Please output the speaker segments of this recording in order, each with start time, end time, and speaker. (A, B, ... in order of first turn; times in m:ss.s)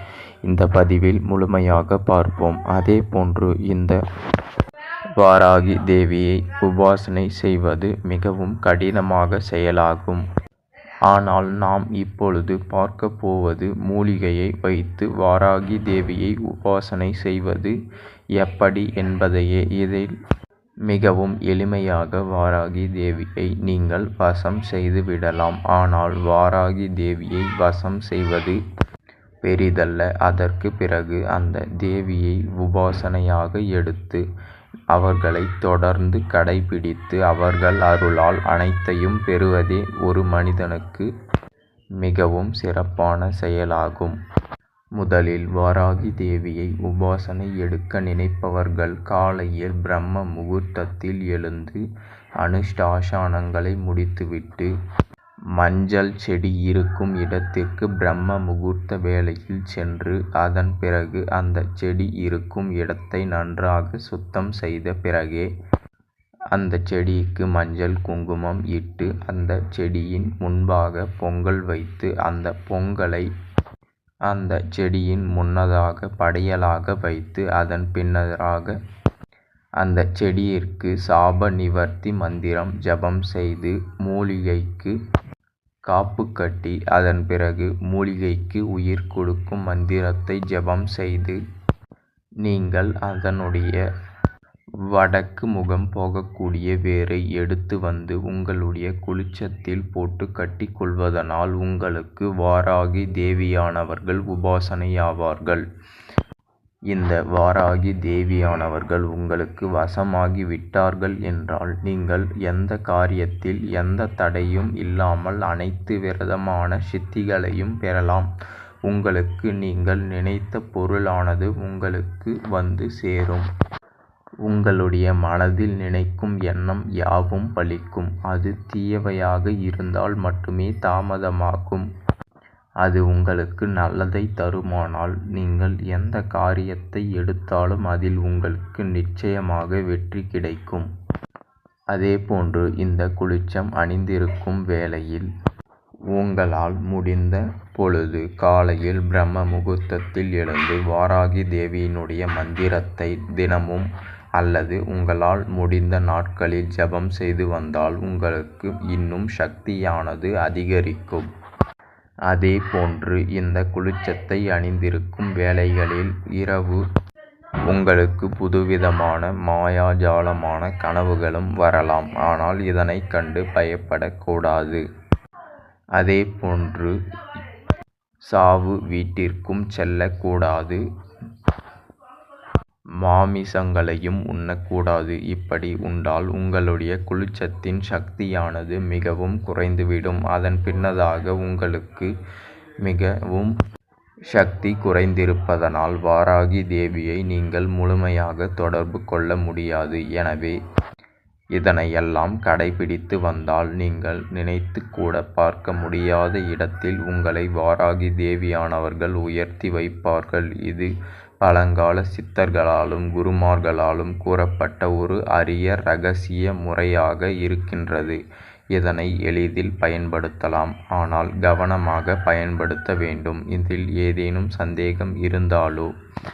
0:00.5-0:04.0 A
0:05.2-0:10.2 A
0:11.1-0:17.8 A
0:18.4-0:20.1 A
0:20.9-0:28.6 A
0:29.4-0:34.2 A
0:34.9-0:41.1 A
0:42.0-0:44.2 A
0:45.0-0:51.8 A
0:52.4-0:54.7 A
0:55.6-1:05.5 A
1:06.5-1:13.3 A
1:14.3-1:18.8 A
1:19.8-1:25.0 A
1:25.9-1:31.4 A
1:32.4-1:33.8 A
1:34.9-1:45.6 A
1:46.9-1:58.3 A
1:58.9-2:03.5 A
2:04.5-2:11.9 A
2:12.8-2:20.9 A
2:21.9-2:25.3 A
2:26.2-2:33.9 A
2:34.4-2:41.2 A
2:42.3-2:46.8 A
2:47.7-2:54.8 A
2:56.0-2:57.0 A
2:58.3-3:00.8 A
3:03.0-3:12.1 A
3:12.8-3:13.5 A
3:14.3-3:20.6 A
3:21.6-3:30.9 A
3:31.4-3:38.2 A
3:38.8-3:45.9 A